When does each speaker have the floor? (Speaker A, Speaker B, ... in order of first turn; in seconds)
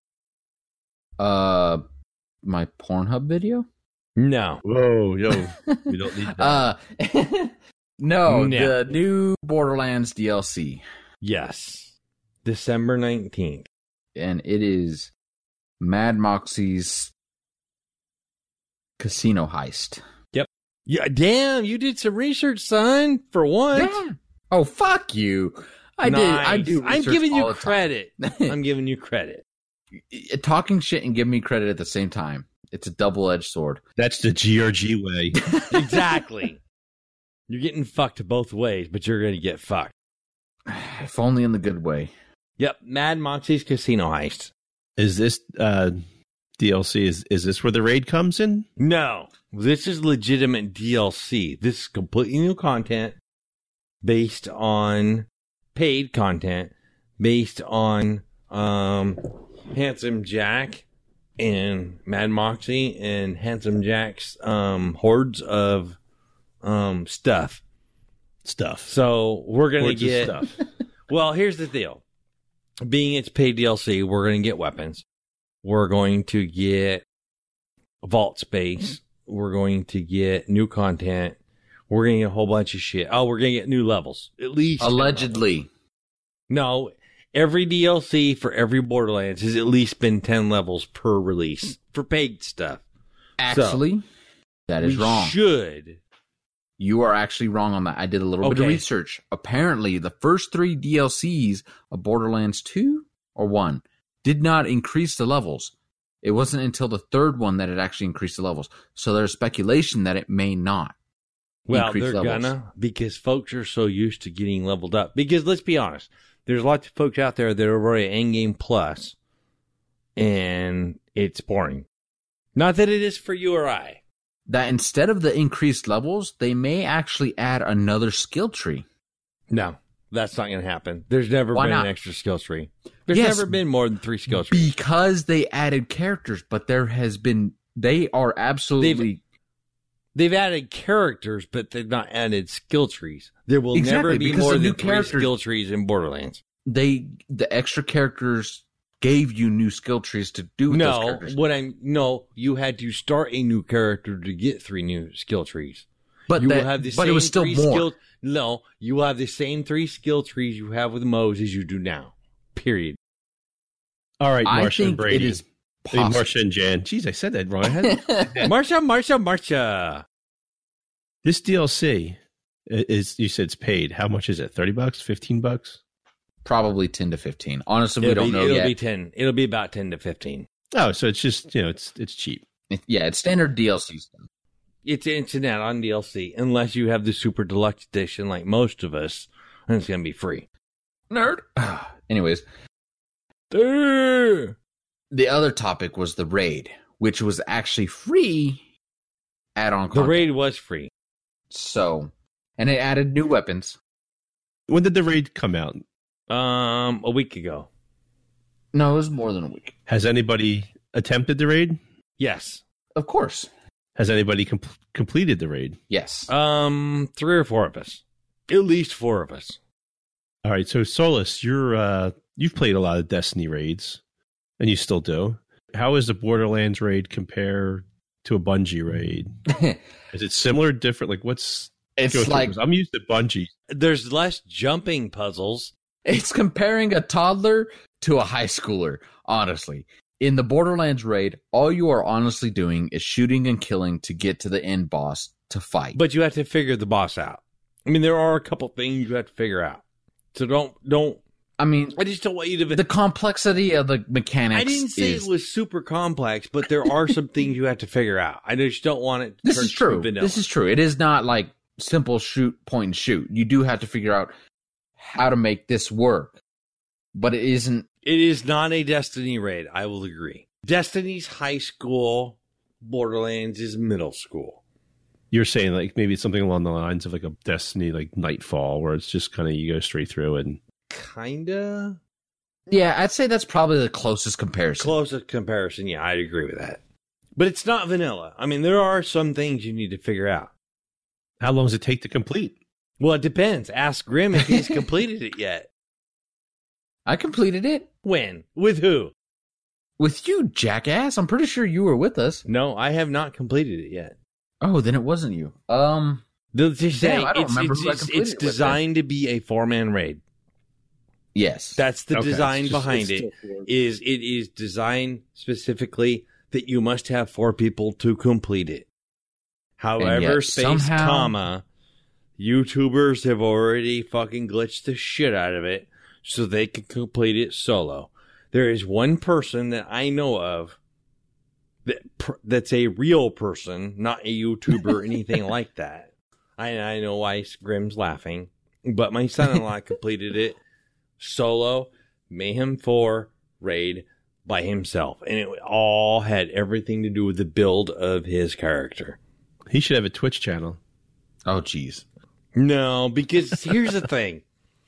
Speaker A: 1.2-1.8, 2.4-3.7, 5.3-10.8, 14.2-15.1, 15.8-17.1, 19.0-20.0, 23.7-28.6, 30.0-33.8, 35.5-36.0, 40.7-42.1, 84.8-85.7, 93.4-94.0, 94.7-95.4, 96.8-111.0, 111.7-112.5, 124.5-128.8, 131.5-131.9, 133.1-133.6, 134.3-139.2, 143.7-145.3, 146.7-151.4, 156.3-157.9, 164.4-166.3, 167.8-168.5, 176.4-178.8, 182.7-184.2, 191.1-192.4, 195.1-198.6, 199.6-200.3, 201.5-203.8, 208.7-209.8, 212.9-213.5, 215.9-216.3, 229.5-229.8, 232.0-232.6, 236.1-246.0, 251.6-252.0, 252.7-255.3, 259.4-264.3, 265.0-266.4, 267.1-267.9, 282.7-284.9, 297.1-297.9, 300.0-302.4, 304.6-306.2, 306.9-308.8, 311.3-311.8, 320.0-321.3, 351.5-352.1
Speaker B: 4.2-4.6, 8.3-8.8, 11.2-11.9, 12.4-13.7, 20.3-24.0, 26.0-29.4, 35.7-36.6, 37.5-39.9, 42.6-44.5, 48.8-53.2, 54.0-60.9, 61.4-66.0, 66.6-67.6, 68.9-70.4, 71.1-72.0, 72.8-75.0, 75.6-77.0, 78.0-81.4, 81.9-85.5, 86.5-92.8, 93.5-93.8, 94.8-96.0, 98.4-98.8, 111.7-119.2, 120.2-121.9, 122.5-124.0, 129.5-134.7, 138.8-139.1, 140.2-146.4, 150.7-163.0, 168.4-170.0, 178.0-180.5, 184.8-190.5, 193.5-194.6, 199.9-200.9, 206.3-207.7, 212.2-212.6, 216.3-219.6, 233.7-235.7, 245.9-249.8, 250.3-251.2, 252.0-252.8, 254.5-260.4, 268.1-274.6, 280.9-282.0, 284.8-286.8, 287.4-290.5, 293.0-295.7, 298.0-299.1, 302.5-304.2, 306.5-310.2, 311.8-318.9, 319.8-321.6, 322.4-330.8, 331.9-340.6, 341.2-349.2, 352.6-354.4
Speaker C: 4.6-6.7, 34.0-35.4, 45.0-46.0, 46.6-48.7, 68.5-68.9, 69.8-70.5, 164.2-168.5, 171.2-175.8, 180.7-182.4, 204.7-205.8, 209.9-211.8, 214.0-215.8, 220.4-224.0, 224.6-229.3, 230.1-233.5, 275.3-280.6, 291.4-292.6, 312.1-313.7, 349.7-350.8